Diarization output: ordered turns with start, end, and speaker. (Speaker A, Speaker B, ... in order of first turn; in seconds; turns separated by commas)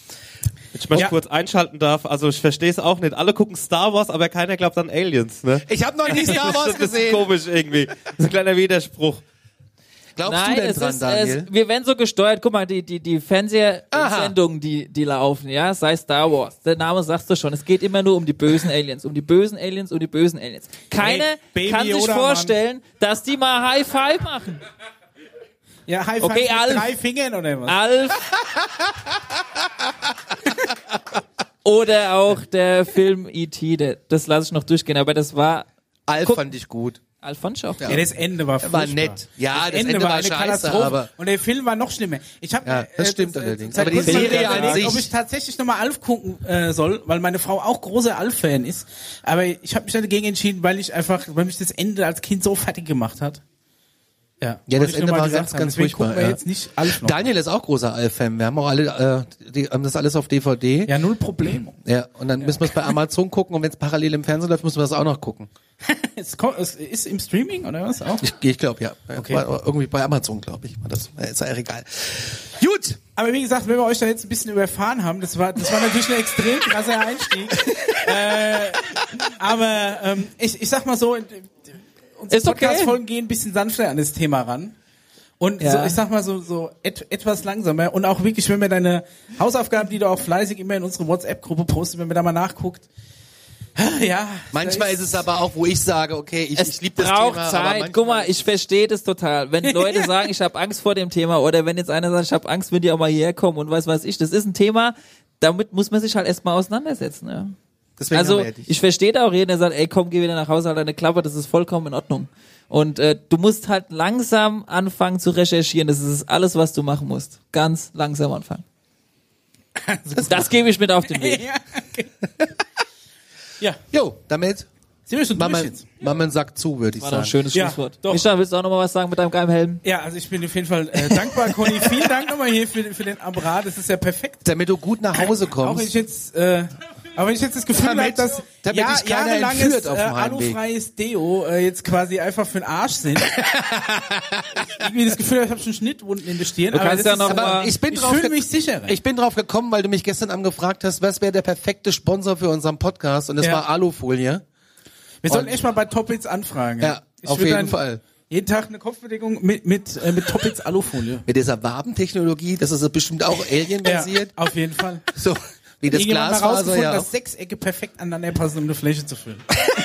Speaker A: 0.7-9.2, Speaker B: 5.6-7.3, Speaker B: 10.2-11.5, Speaker C: 10.2-24.6, Speaker B: 13.9-14.3, Speaker D: 21.0-22.5, Speaker D: 25.9-27.8, Speaker C: 26.2-26.9, Speaker C: 27.7-28.3, Speaker C: 31.6-35.7, Speaker B: 36.1-37.0, Speaker C: 36.2-36.5, Speaker C: 37.2-38.0, Speaker B: 37.8-38.0, Speaker D: 37.9-53.4, Speaker B: 38.6-41.1, Speaker B: 42.6-45.1, Speaker C: 43.8-44.9, Speaker D: 54.4-57.3, Speaker B: 54.7-60.9, Speaker D: 60.9-61.8, Speaker B: 61.8-65.5, Speaker D: 62.4-62.7, Speaker D: 65.8-68.2, Speaker B: 68.2-73.0, Speaker D: 69.2-69.4, Speaker D: 73.2-84.7, Speaker C: 82.3-83.0, Speaker D: 85.4-92.9, Speaker C: 85.6-86.0, Speaker D: 93.8-95.2, Speaker B: 94.5-98.4, Speaker C: 96.5-107.5, Speaker D: 99.6-100.1, Speaker B: 108.0-108.7, Speaker C: 108.1-118.6, Speaker D: 119.8-120.5, Speaker C: 120.2-121.4, Speaker D: 121.0-122.1, Speaker B: 123.9-124.7, Speaker D: 125.1-125.8, Speaker B: 125.3-127.3, Speaker C: 127.0-129.8, Speaker D: 127.5-128.2, Speaker D: 129.8-134.4, Speaker B: 134.4-135.9, Speaker D: 135.6-143.4, Speaker B: 137.8-140.6, Speaker B: 143.3-144.8, Speaker D: 144.6-148.9, Speaker C: 146.7-147.7, Speaker B: 147.2-154.4, Speaker D: 155.2-161.2, Speaker B: 155.3-155.6, Speaker B: 156.8-158.0, Speaker B: 161.3-164.3, Speaker D: 163.8-165.1, Speaker B: 165.1-167.1, Speaker D: 165.9-169.5